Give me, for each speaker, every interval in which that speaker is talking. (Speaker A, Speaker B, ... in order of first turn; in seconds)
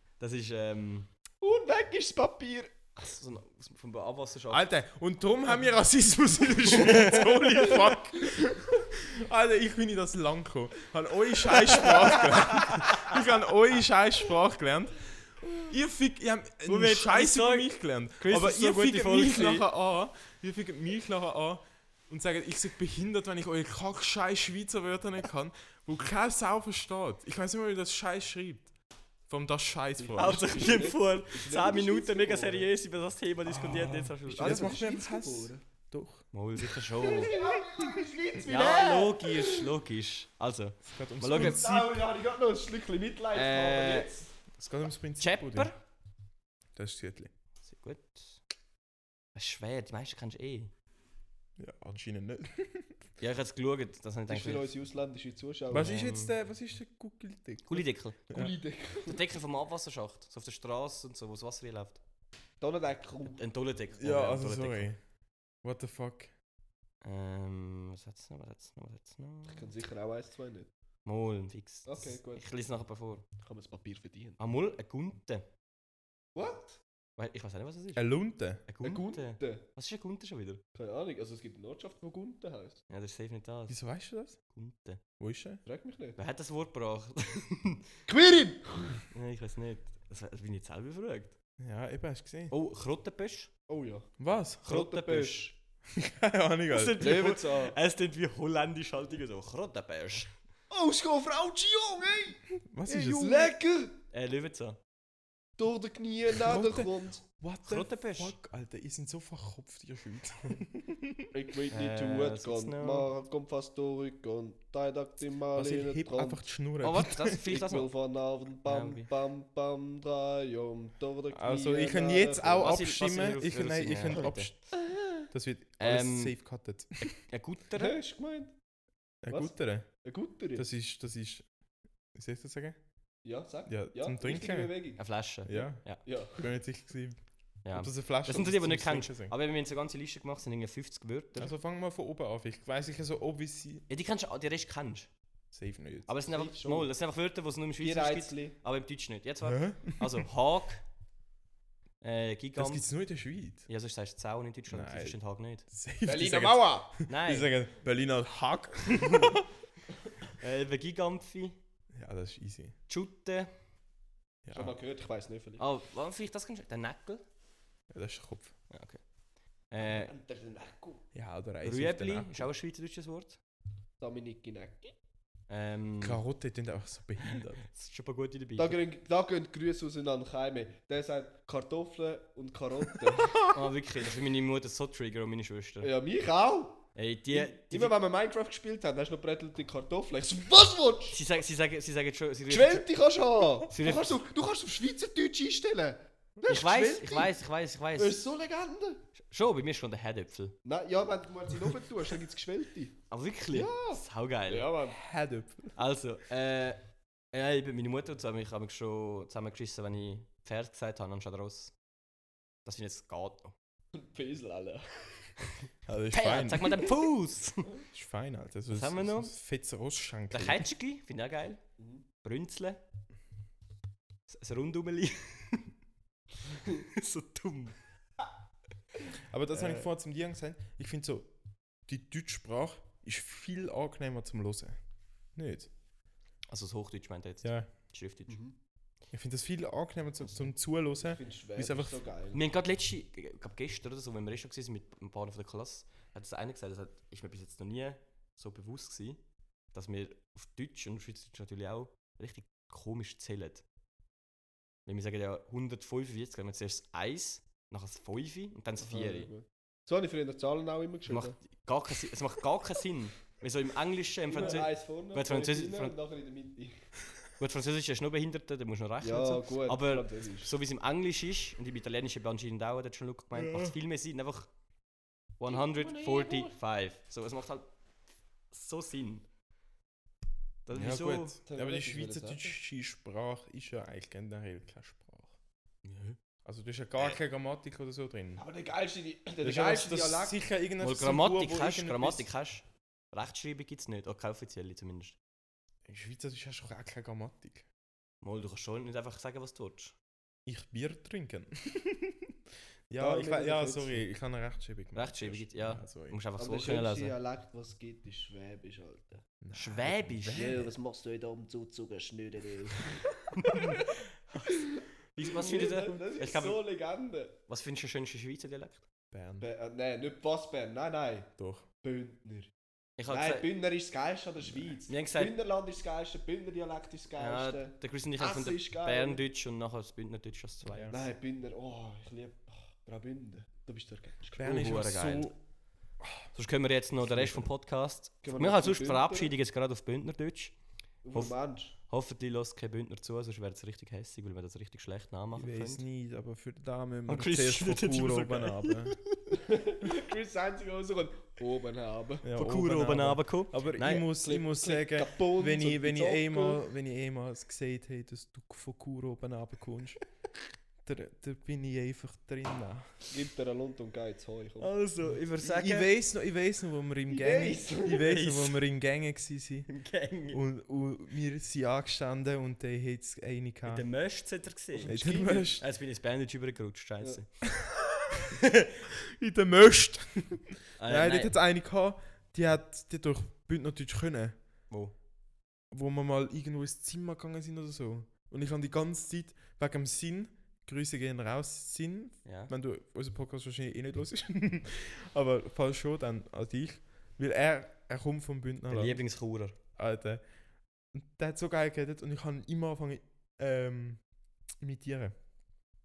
Speaker A: 0.2-1.1, 3.0-4.7, 12.6-13.1, 16.6-19.6, 30.1-34.7, 36.3-37.4, 38.4-41.6, 43.3-44.1, 45.2-45.8, 47.6-48.4, 49.3-50.7, 53.2-54.7, 55.8-56.3, 57.7-58.2, 59.0-62.0, 63.2-64.9, 67.0-69.7, 71.0-73.2, 74.4-75.5, 77.2-78.0, 78.7-80.6, 82.9-83.8, 84.5-85.0, 86.2-88.0, 89.1-91.3, 92.5-93.5, 94.6-95.5, 96.7-100.3, 104.1-104.8, 107.6-108.3, 111.7-113.1, 116.8-117.9, 118.6-119.1, 122.6-124.5, 125.8-126.4, 127.0-128.0, 135.0-136.0, 137.6-141.5, 143.9-145.1, 146.1-150.8, 152.0-152.9, 153.7-155.7, 157.1-157.5, 159.1-159.3, 160.4-161.6, 162.9-163.5, 165.6-167.2, 168.7-169.0, 169.7-170.1, 171.6-173.4, 175.5-176.2, 177.6-178.8, 183.5-185.9, 186.9-187.9, 191.1-192.9, 193.7-194.2, 196.5-198.2, 199.2-200.6, 203.1-204.7, 205.7-211.7, 212.6-213.5, 216.1-217.7, 218.7-219.3, 220.3-221.6, 222.2-222.8, 224.3-225.7, 226.8-227.8, 236.5-238.4, 242.3-249.2, 249.7-253.6, 254.8-259.3, 261.1-265.9, 267.4-274.5, 275.4-277.7, 278.5-279.2, 280.6-281.4, 285.8-286.2, 290.8-295.2, 298.2-299.9, 304.9-307.1, 309.5-310.5, 313.3-316.6, 317.5-318.9, 323.0-323.4, 324.9-325.3, 327.2-330.9, 334.4-335.3, 336.3-340.5, 341.1-345.8, 347.1-349.1, 352.3-354.1, 364.6-365.9, 367.9-368.6, 369.7-370.4, 373.6-377.5, 380.8-381.3, 384.7-384.9, 392.2-392.5, 398.7-399.6
Speaker B: 1.4-3.1, 30.0-32.7, 34.3-35.6, 37.0-39.7, 41.3-44.4, 54.3-56.0, 58.3-59.2, 62.6-63.4, 69.5-70.7, 71.8-72.5, 73.4-74.4, 76.3-76.8, 78.8-79.6, 80.7-82.8, 85.6-86.2, 88.1-89.0, 93.7-95.5, 97.0-97.7, 100.7-104.0, 105.6-107.2, 111.3-116.5, 117.3-122.8, 124.8-125.2, 127.8-128.5, 129.3-130.6, 133.2-136.5, 146.2-146.9, 147.8-148.6, 156.0-157.0, 164.5-165.6, 169.8-171.0, 174.0-174.9, 178.6-183.4, 185.8-191.2, 192.5-197.3, 197.9-199.1, 200.6-203.0, 203.5-205.1, 213.9-215.4, 221.8-222.0, 238.3-238.6, 241.0-242.4, 258.8-261.4, 264.3-266.9, 269.0-270.5, 275.5-276.5, 281.4-282.6, 288.4-290.4, 303.0-304.0, 306.4-309.3, 310.3-313.8, 314.4-317.4, 319.4-322.5, 323.1-329.2, 330.9-334.7, 338.2-339.3, 341.0-341.7, 349.3-352.3, 353.8-356.6, 363.1-364.7, 367.1-368.1, 374.8-375.6
Speaker C: 4.5-28.7, 29.3-30.8, 33.5-36.3, 40.8-42.0, 44.6-45.7, 46.8-47.3, 51.6-53.0, 55.7-58.5, 64.0-65.0, 65.6-66.3, 78.0-78.6, 83.7-84.4, 85.2-85.6, 91.6-92.5, 94.2-94.6, 95.9-97.2, 102.6-103.5, 106.4-111.3, 115.5-117.4, 121.3-124.8, 125.3-127.2, 129.2-130.0, 130.6-131.4, 132.1-132.8, 133.7-134.8, 135.4-139.3, 141.4-143.8, 145.5-146.1, 149.4-150.2, 152.6-153.7, 154.7-159.4, 161.9-162.8, 164.4-164.8, 167.9-168.6, 171.1-172.5, 176.0-177.6, 204.9-205.7, 215.8-216.8, 217.9-220.7, 229.2-231.3, 231.8-234.8, 235.3-235.7, 237.4-237.7, 239.1-241.9, 280.7-285.3, 286.4-288.4, 289.4-292.3, 295.9-297.6, 300.4-302.4, 302.9-306.2, 309.4-310.7, 319.1-319.4, 321.4-321.6, 330.7-331.0, 334.4-335.3, 336.0-336.3, 337.0-337.5, 345.3-349.0, 352.2-360.0, 360.8-362.9, 365.4-369.7, 370.3-373.9, 374.9-375.6, 379.1-384.4, 385.7-399.0, 399.7-400.3, 400.9-404.0, 404.6-405.1